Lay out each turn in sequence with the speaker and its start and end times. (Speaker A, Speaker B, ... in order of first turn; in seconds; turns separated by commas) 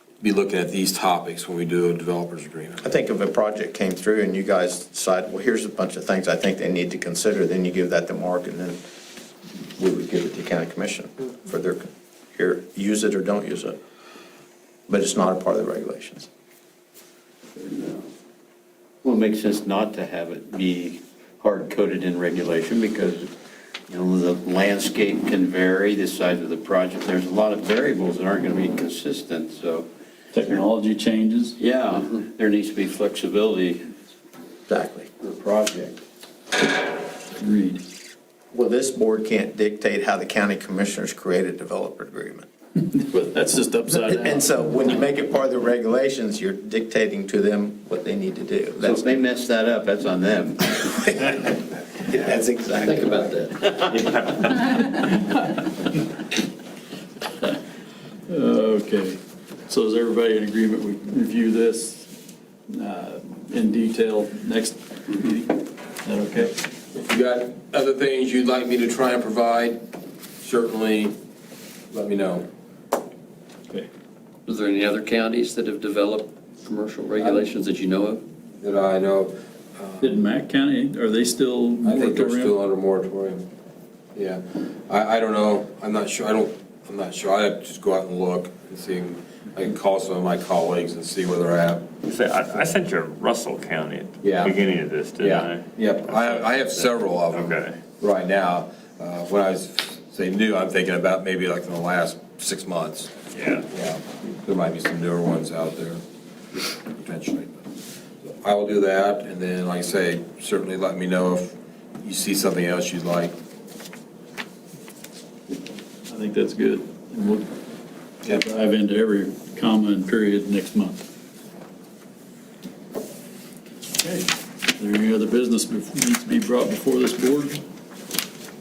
Speaker A: 0.2-2.9, Speaker B: 2.8-8.8, Speaker B: 9.8-13.8, Speaker B: 14.9-16.3, Speaker C: 17.6-18.1, Speaker C: 19.0-23.3, Speaker C: 23.9-29.9, Speaker D: 30.3-31.6, Speaker C: 31.6-33.9, Speaker B: 34.7-35.1, Speaker C: 35.2-36.0, Speaker D: 37.4-37.8, Speaker B: 38.5-42.5, Speaker D: 43.0-44.5, Speaker B: 43.9-49.2, Speaker C: 48.8-50.7, Speaker B: 50.7-54.3, Speaker D: 58.3-62.1, Speaker D: 62.7-66.5, Speaker A: 66.9-69.8, Speaker A: 70.4-71.2, Speaker A: 71.9-72.5, Speaker E: 74.6-78.2, Speaker A: 77.2-77.5, Speaker A: 78.6-80.2, Speaker D: 80.0-82.5, Speaker A: 81.8-83.5, Speaker A: 84.2-91.9, Speaker F: 92.0-97.8, Speaker A: 94.2-94.6, Speaker A: 95.2-103.1, Speaker F: 103.3-103.7, Speaker A: 103.7-106.0, Speaker A: 107.0-107.5, Speaker A: 108.3-113.4, Speaker D: 116.1-117.5, Speaker D: 118.2-121.0, Speaker D: 124.0-127.6